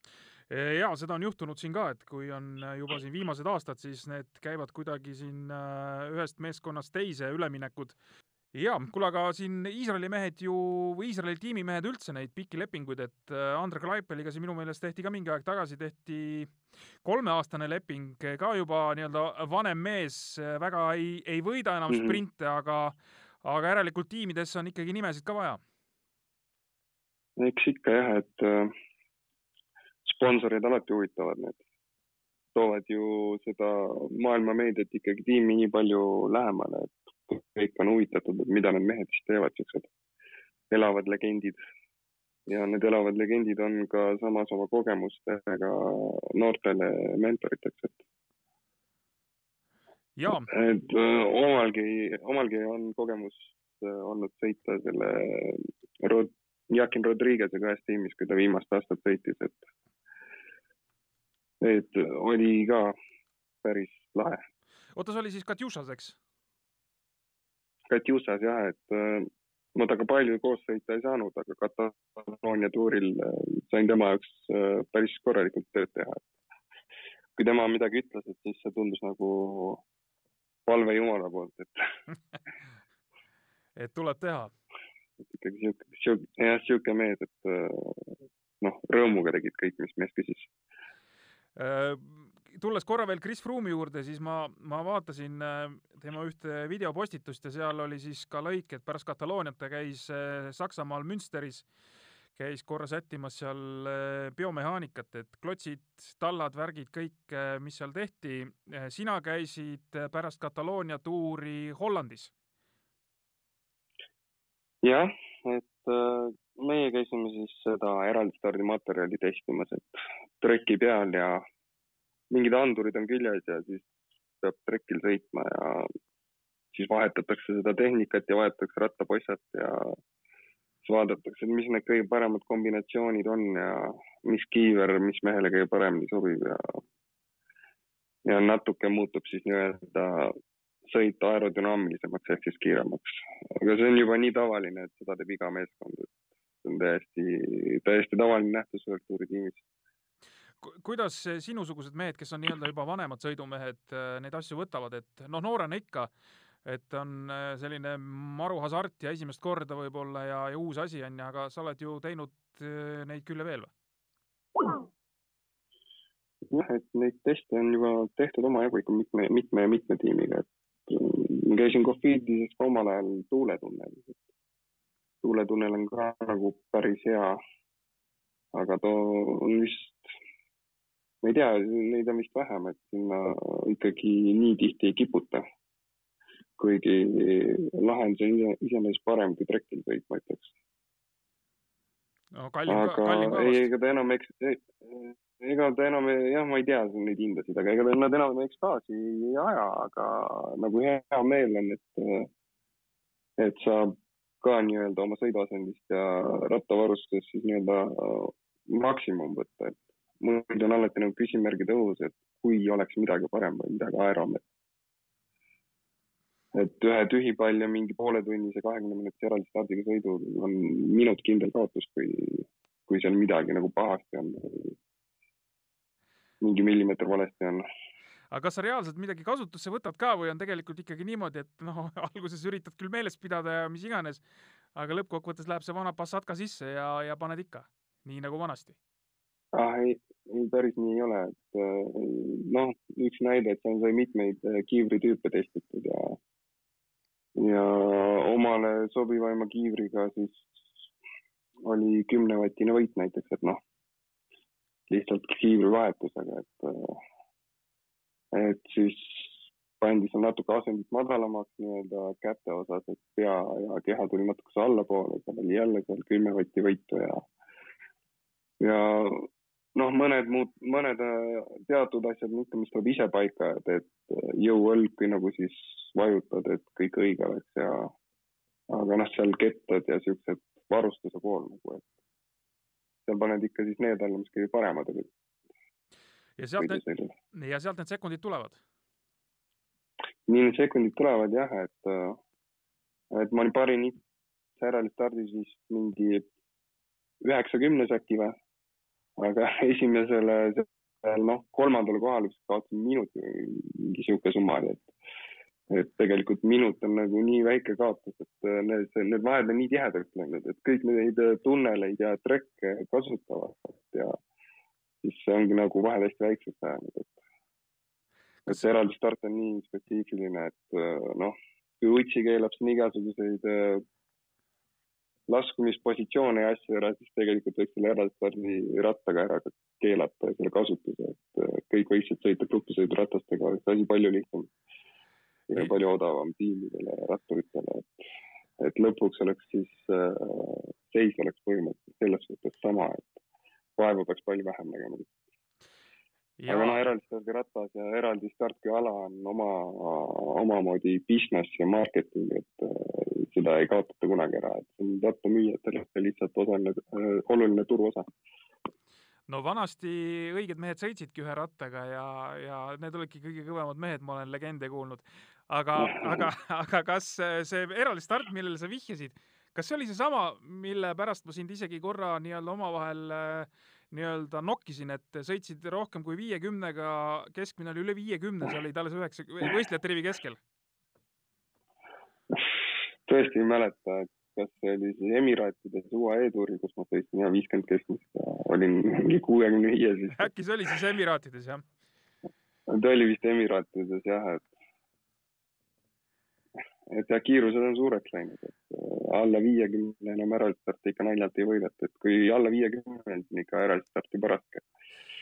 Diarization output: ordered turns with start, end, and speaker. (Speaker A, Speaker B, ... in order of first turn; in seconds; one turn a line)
Speaker A: 0.5-8.0
Speaker A: 8.5-25.6
Speaker B: 27.4-28.7
Speaker B: 30.1-31.6
Speaker B: 32.5-39.9
Speaker B: 40.7-41.6
Speaker B: 42.5-48.0
Speaker A: 50.2-50.5
Speaker B: 50.5-59.6
Speaker B: 61.6-62.9
Speaker B: 63.6-64.4
Speaker A: 65.0-66.2
Speaker B: 67.9-76.3
Speaker B: 77.4-79.8
Speaker B: 80.7-81.7
Speaker A: 83.8-84.5
Speaker B: 85.3-88.1
Speaker B: 88.6-90.5
Speaker A: 91.6-101.6
Speaker A: 102.4-112.3
Speaker B: 114.8-121.4
Speaker B: 122.3-123.9
Speaker B: 124.4-125.9
Speaker B: 126.7-130.0
Speaker B: 130.8-136.8
Speaker B: 138.3-140.3
Speaker B: 140.9-146.1
Speaker B: 146.6-149.6
Speaker A: 150.6-156.1
Speaker A: 156.6-163.7
Speaker B: 166.5-174.2
Speaker B: 175.2-177.4
Speaker B: 178.5-180.1
Speaker B: 181.2-185.4
Speaker B: 186.6-190.5
Speaker A: 192.3-193.7
Speaker B: 192.7-202.3
Speaker B: 203.4-214.4
Speaker B: 216.5-224.7
Speaker B: 226.4-227.6
Speaker A: 228.3-234.2
Speaker A: 234.7-238.8
Speaker B: 239.5-246.2
Speaker B: 247.4-250.6
Speaker B: 251.6-253.6
Speaker B: 254.9-257.0
Speaker B: 258.3-267.2
Speaker B: 268.6-277.9
Speaker B: 278.7-281.9
Speaker B: 283.1-285.1
Speaker A: 286.4-286.8
Speaker B: 286.6-287.1
Speaker A: 287.3-288.6
Speaker B: 290.3-292.2
Speaker B: 293.1-293.9
Speaker B: 294.6-296.2
Speaker B: 297.2-298.3
Speaker B: 299.2-304.9
Speaker B: 305.7-314.1
Speaker B: 315.0-317.2
Speaker B: 318.5-323.8
Speaker B: 325.3-334.5
Speaker B: 335.5-338.0
Speaker B: 338.6-343.2
Speaker B: 343.8-345.1
Speaker A: 346.4-346.8
Speaker B: 346.5-358.1
Speaker A: 359.3-380.4
Speaker B: 383.1-390.1
Speaker A: 390.1-391.6
Speaker B: 392.7-394.4
Speaker B: 396.9-404.6